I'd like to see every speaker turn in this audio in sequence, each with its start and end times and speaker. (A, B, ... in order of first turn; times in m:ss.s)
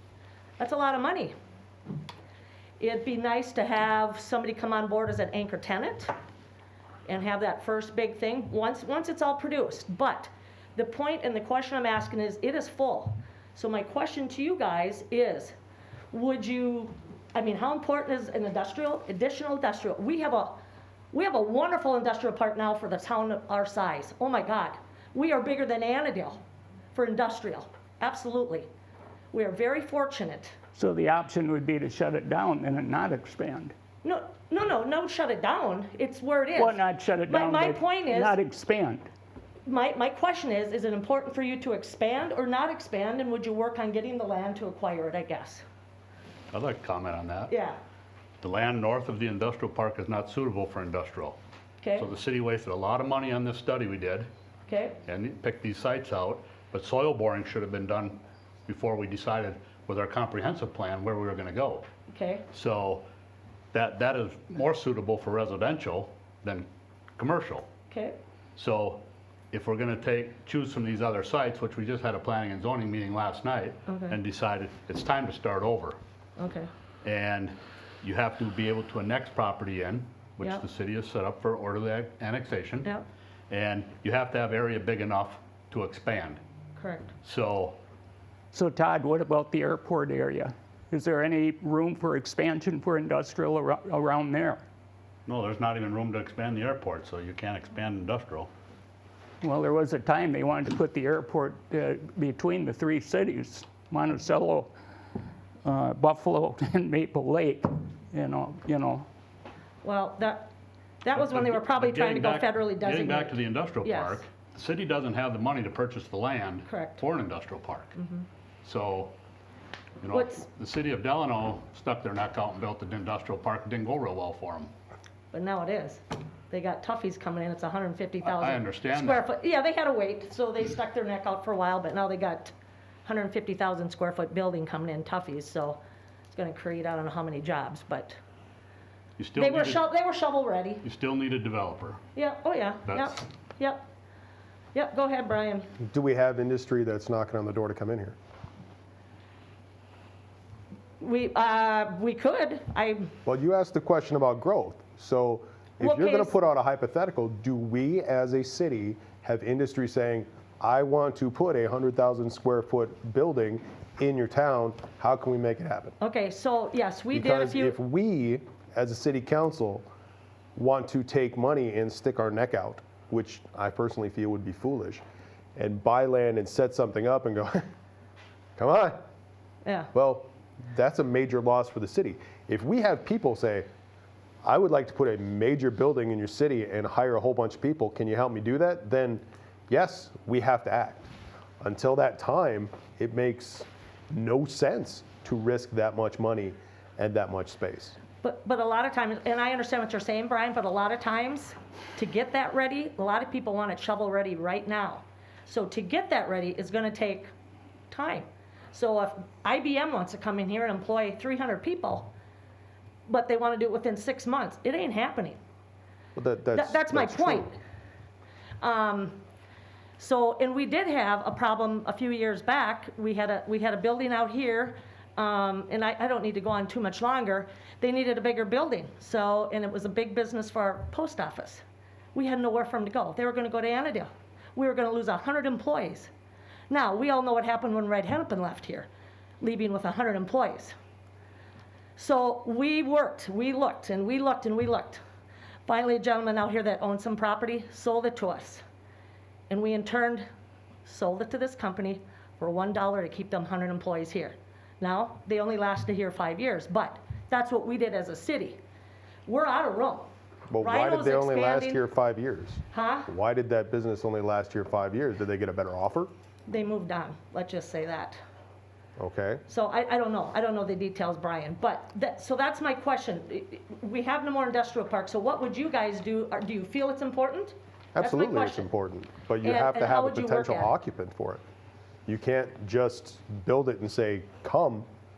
0:00.6-0:01.3 A
0:02.8-0:06.1 A
0:07.0-0:15.5 A
0:16.1-0:20.6 A
0:21.1-0:26.4 A
0:26.9-0:28.7 A
0:29.3-0:30.6 A
0:30.7-0:33.7 B
0:34.0-0:38.4 A
0:36.5-0:39.1 B
0:39.6-0:45.6 A
0:46.5-0:47.5 C
0:47.5-0:47.8 A
0:48.4-0:51.4 C
0:51.8-0:52.1 A
0:52.0-0:54.3 C
0:54.7-0:55.0 A
0:55.0-1:01.8 C
1:02.1-1:02.4 A
1:02.5-1:03.1 C
1:03.7-1:07.7 C
1:07.9-1:08.2 A
1:08.6-1:16.0 C
1:13.9-1:14.2 A
1:16.4-1:16.7 A
1:17.0-1:22.9 C
1:23.5-1:26.4 C
1:26.8-1:27.1 A
1:27.2-1:27.8 C
1:28.5-1:34.6 B
1:35.2-1:38.5 C
1:39.4-1:44.7 B
1:45.6-1:49.1 B
1:49.8-1:50.5 A
1:51.0-1:54.2 A
1:51.1-1:57.9 C
1:56.6-1:57.0 A
1:58.0-1:58.2 A
1:58.6-1:59.2 C
2:00.0-2:04.7 C
2:00.1-2:00.4 A
2:05.3-2:12.5 A
2:08.2-2:09.2 C
2:13.0-2:18.2 A
2:19.2-2:19.8 C
2:19.4-2:20.8 A
2:20.8-2:22.0 C
2:22.1-2:23.9 A
2:22.9-2:23.2 C
2:24.7-2:25.7 A
2:25.8-2:28.2 D
2:31.0-2:33.1 A
2:33.2-2:45.9 D
2:35.8-2:36.3 A
2:46.0-2:47.8 A
2:47.1-2:49.8 D
2:50.6-2:55.0 D
2:55.6-2:57.6 D
2:58.6-2:59.0 D
2:59.6-2:59.9 A
2:59.9-3:03.7 D
3:04.4-3:11.1 D
3:11.6-3:18.0 D
3:18.2-3:27.3 A
3:27.9-3:32.1 A
3:33.1-3:35.4 A
3:36.2-3:37.5 D
3:36.5-3:37.6 A
3:38.6-3:39.2 A
3:40.0-3:51.6 A
3:52.1-3:56.1 A
3:56.7-3:58.9 A
3:59.4-4:00.7 A
4:02.0-4:05.0 A
4:05.6-4:08.6 A
4:09.5-4:10.2 A
4:10.8-4:18.6 A
4:19.2-4:20.1 A
4:20.5-4:26.1 D
4:20.6-4:21.8 A
4:22.7-4:23.1 A
4:26.5-4:28.2 A
4:29.0-4:29.4 D
4:29.5-4:38.7 A
4:37.9-4:41.4 D
4:39.4-4:40.7 A
4:42.0-4:44.9 D